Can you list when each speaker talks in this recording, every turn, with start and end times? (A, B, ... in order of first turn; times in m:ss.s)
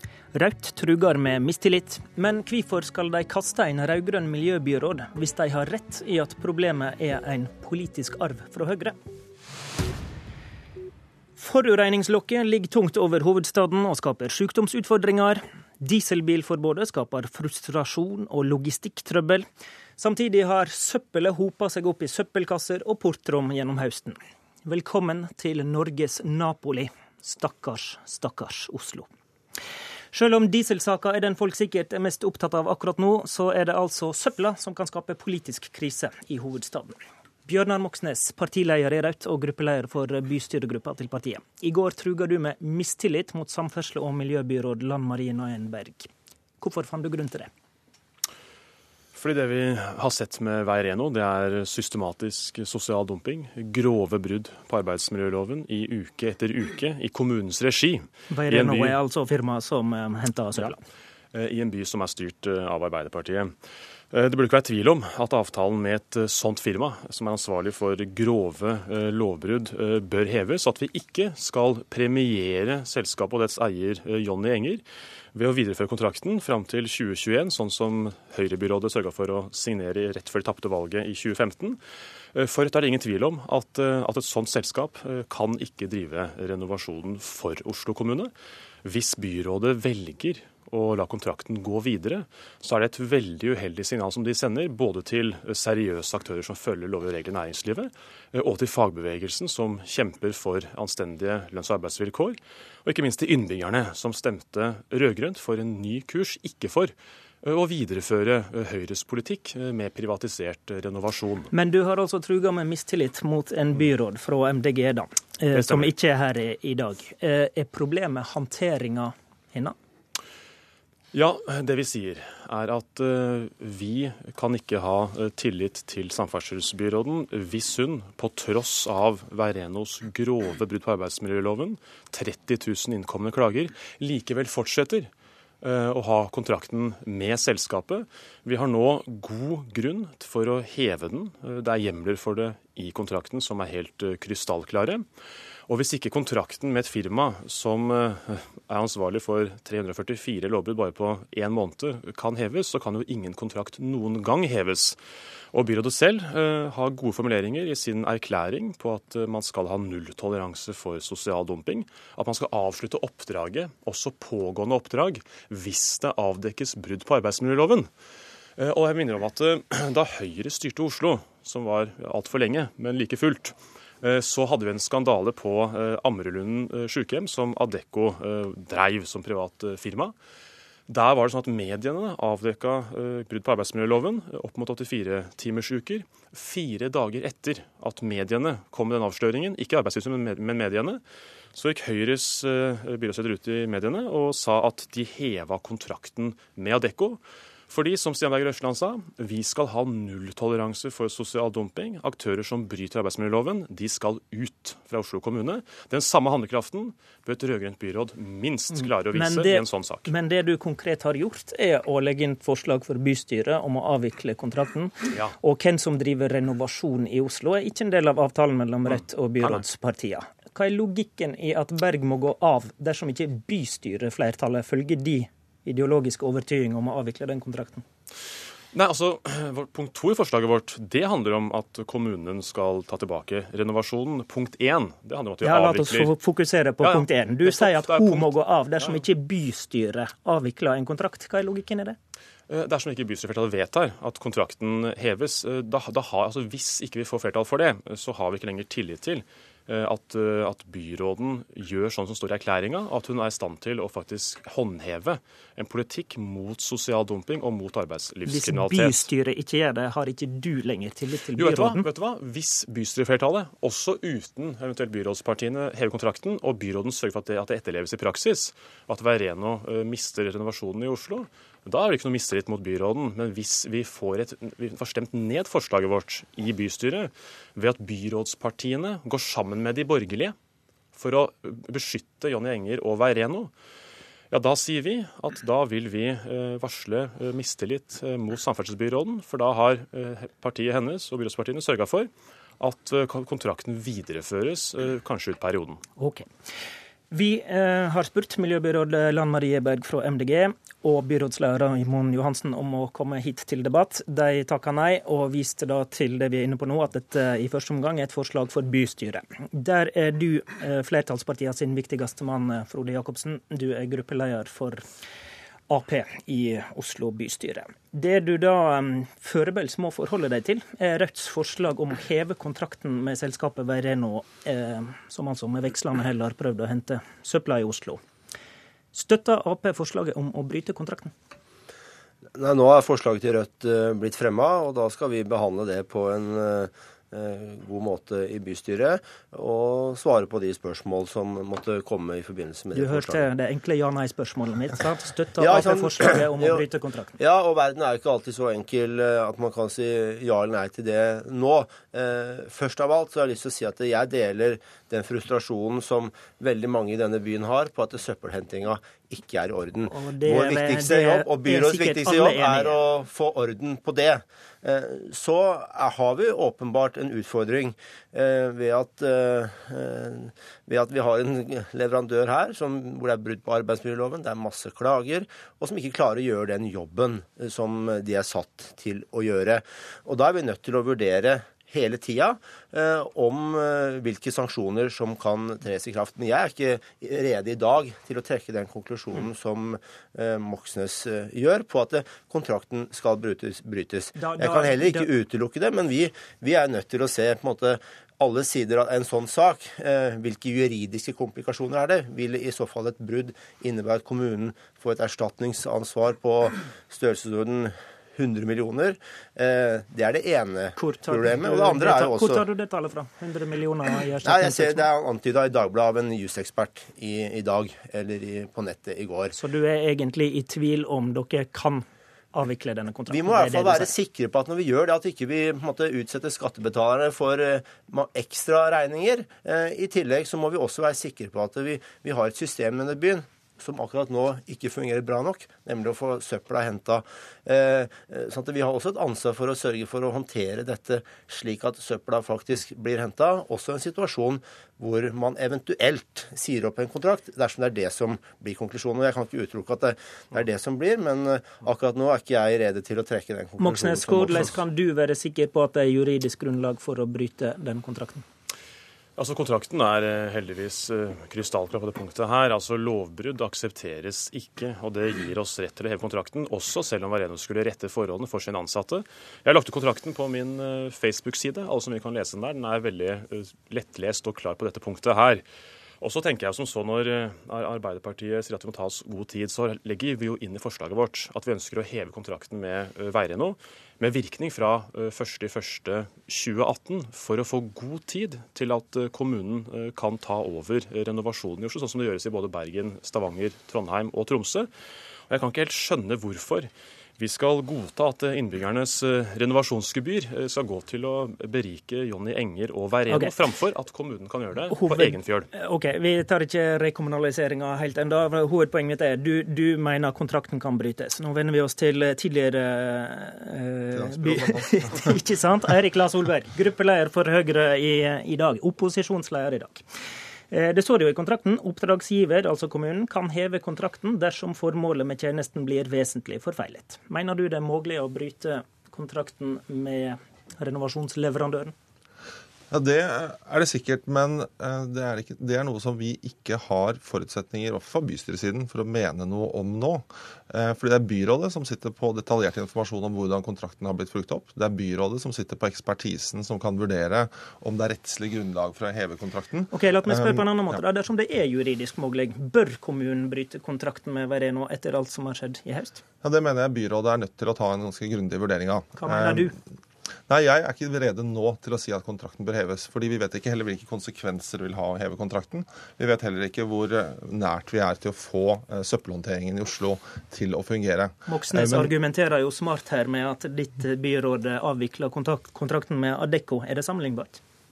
0:00.3-0:09.0 A
0:11.4-0:19.5 A
0:20.0-0:29.1 A
0:30.1-0:46.1 A
0:46.6-0:47.5 A
0:49.1-0:59.0 B
0:58.3-1:00.8 A
1:01.3-1:03.5 B
1:04.1-1:14.8 B
1:15.3-1:21.8 B
1:22.3-1:28.3 B
1:28.8-1:51.5 B
1:51.5-1:59.8 A
1:55.5-1:55.9 B
2:01.1-2:15.1 B
2:15.6-2:25.1 B
2:25.7-2:35.0 B
2:35.5-2:47.9 B
2:48.6-3:00.2 B
3:00.9-3:11.0 B
3:11.5-3:30.1 B
3:29.1-3:47.8 A
3:35.1-3:35.4 B
3:48.7-3:56.1 B
3:55.4-4:02.0 A
3:56.8-3:59.0 B
4:02.5-4:19.1 B
4:18.3-4:21.9 A
4:21.4-4:40.4 B
4:40.9-4:43.5 B
4:44.3-4:55.8 B
4:56.0-4:56.3 A
4:57.1-5:14.8 A
5:15.7-5:28.0 A
5:28.9-5:31.1 A
5:32.4-5:43.3 C
5:42.7-5:47.2 A
5:45.4-6:52.4 C
5:59.9-6:02.8 A
6:34.2-6:35.1 A
6:50.8-6:54.9 A
6:54.2-6:59.4 C
6:59.3-7:03.9 A
7:03.1-7:34.5 C
7:33.6-7:38.2 A
7:39.2-7:55.4 B
7:56.0-8:14.7 B
8:15.3-8:25.5 B
8:24.7-8:39.8 A
8:33.9-8:35.2 D
8:40.5-8:51.7 A
8:52.7-9:10.8 D
9:09.7-9:16.0 A
9:16.2-9:19.5 D
9:19.0-9:19.5 A
9:20.3-9:31.9 D
9:31.3-9:37.4 A